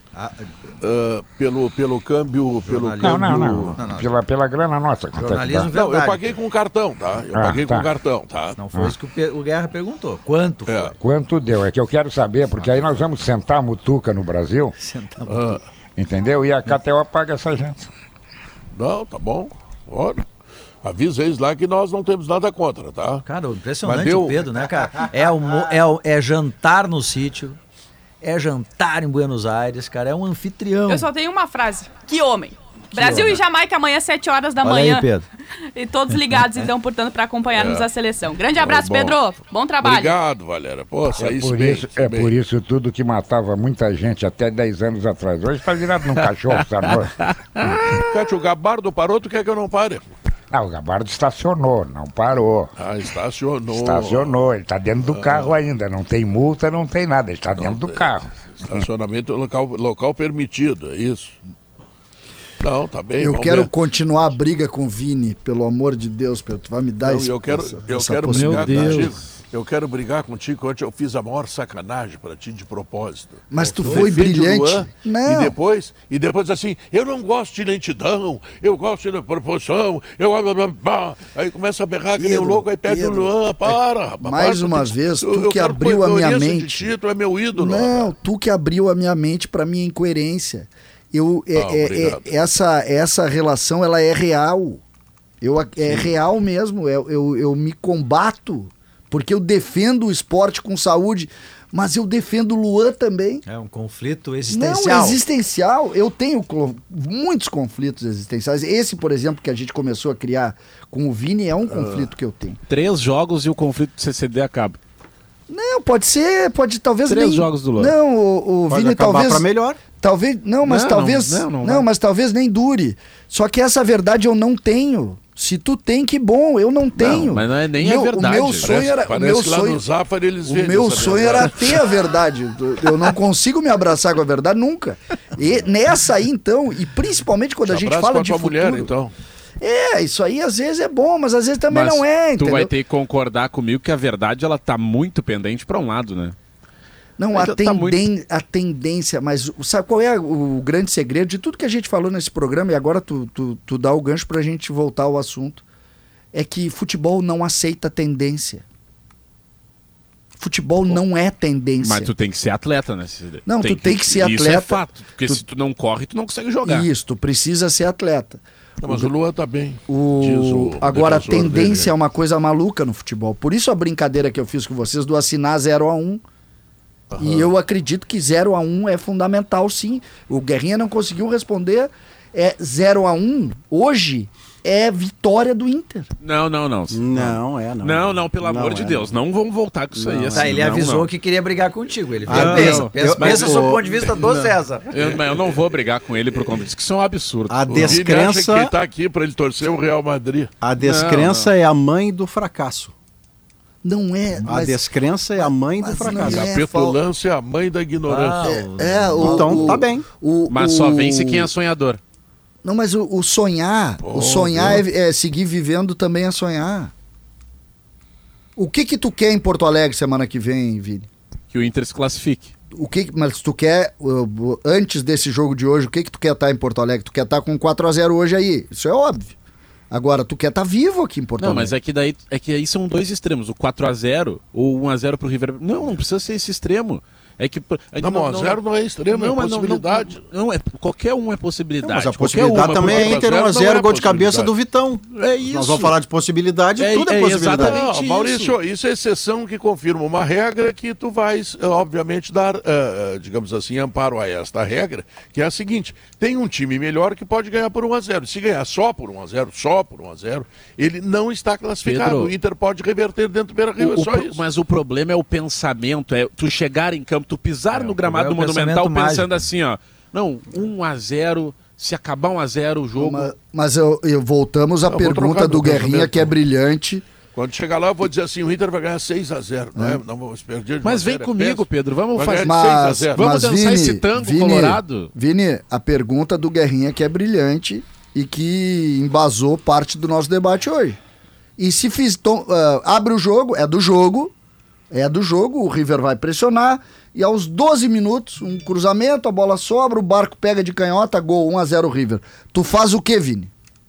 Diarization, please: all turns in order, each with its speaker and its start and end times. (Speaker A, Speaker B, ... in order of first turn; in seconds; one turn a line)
Speaker A: 0.1-0.5
Speaker B: 0.8-3.8
Speaker A: 2.7-4.1
Speaker C: 3.0-5.7
Speaker A: 5.2-6.3
Speaker B: 5.7-8.6
Speaker C: 7.3-7.9
Speaker A: 8.6-10.9
Speaker B: 10.7-10.9
Speaker C: 11.0-14.7
Speaker A: 14.8-15.6
Speaker B: 15.3-15.6
Speaker C: 16.0-17.9
Speaker B: 18.7-20.2
Speaker B: 20.8-23.2
Speaker A: 23.2-27.6
Speaker B: 23.8-24.4
Speaker A: 28.2-31.1
Speaker D: 30.9-35.1
Speaker A: 32.9-33.4
Speaker A: 34.6-35.3
Speaker D: 35.7-40.1
Speaker B: 37.5-37.9
Speaker B: 38.5-39.2
Speaker B: 39.8-42.3
Speaker C: 41.2-47.1
Speaker E: 46.9-47.7
Speaker B: 48.0-50.1
Speaker C: 50.5-52.7
Speaker B: 52.8-54.5
Speaker C: 53.7-58.8
Speaker B: 55.0-55.5
Speaker B: 57.5-61.4
Speaker B: 62.6-63.7
Speaker F: 63.2-69.1
Speaker B: 67.0-88.1
Speaker E: 68.3-69.1
Speaker F: 73.5-75.5
Speaker E: 73.8-74.0
Speaker F: 82.2-86.9
Speaker F: 87.5-94.8
Speaker B: 91.5-92.3
Speaker F: 95.4-103.4
Speaker A: 103.5-105.2
Speaker F: 104.5-112.6
Speaker E: 112.7-114.8
Speaker F: 115.5-119.5
Speaker E: 117.1-117.9
Speaker G: 118.7-119.8
Speaker F: 120.0-129.8
Speaker E: 120.6-121.9
Speaker E: 127.0-128.9
Speaker B: 128.6-131.9
Speaker F: 130.4-138.9
Speaker B: 137.6-139.1
Speaker F: 139.6-142.7
Speaker E: 141.7-146.4
Speaker F: 147.2-155.6
Speaker E: 147.3-148.0
Speaker F: 156.3-158.6
Speaker F: 160.4-162.1
Speaker E: 161.8-166.9
Speaker F: 163.5-165.4
Speaker F: 166.6-169.1
Speaker B: 168.8-171.9
Speaker F: 169.9-176.2
Speaker B: 177.1-177.4
Speaker F: 177.2-186.1
Speaker E: 186.2-191.1
Speaker G: 186.9-189.2
Speaker G: 189.9-190.7
Speaker A: 190.3-194.9
Speaker G: 192.3-193.8
Speaker E: 192.3-198.0
Speaker B: 194.9-195.7
Speaker G: 197.5-198.7
Speaker B: 197.7-200.5
Speaker G: 200.6-202.9
Speaker E: 200.8-201.5
Speaker F: 203.8-204.9
Speaker G: 204.4-206.5
Speaker F: 205.4-207.0
Speaker B: 206.1-208.5
Speaker A: 208.1-209.8
Speaker F: 208.4-211.5
Speaker G: 209.2-210.1
Speaker E: 210.5-212.0
Speaker F: 212.6-216.9
Speaker B: 214.0-214.8
Speaker F: 218.6-221.1
Speaker E: 221.5-222.5
Speaker F: 222.8-229.3
Speaker F: 229.9-231.8
Speaker E: 231.4-244.2
Speaker B: 238.0-240.2
Speaker G: 241.8-247.8
Speaker B: 242.8-243.5
Speaker B: 244.1-244.5
Speaker E: 245.1-246.0
Speaker E: 246.8-248.6
Speaker B: 247.6-264.4
Speaker E: 261.8-262.3
Speaker E: 263.8-273.3
Speaker A: 267.7-269.4
Speaker F: 273.0-277.0
Speaker B: 274.9-276.4
Speaker B: 277.3-283.2
Speaker F: 279.8-280.0
Speaker E: 280.8-285.1
Speaker F: 282.5-291.0
Speaker F: 291.6-294.3
Speaker F: 294.9-303.5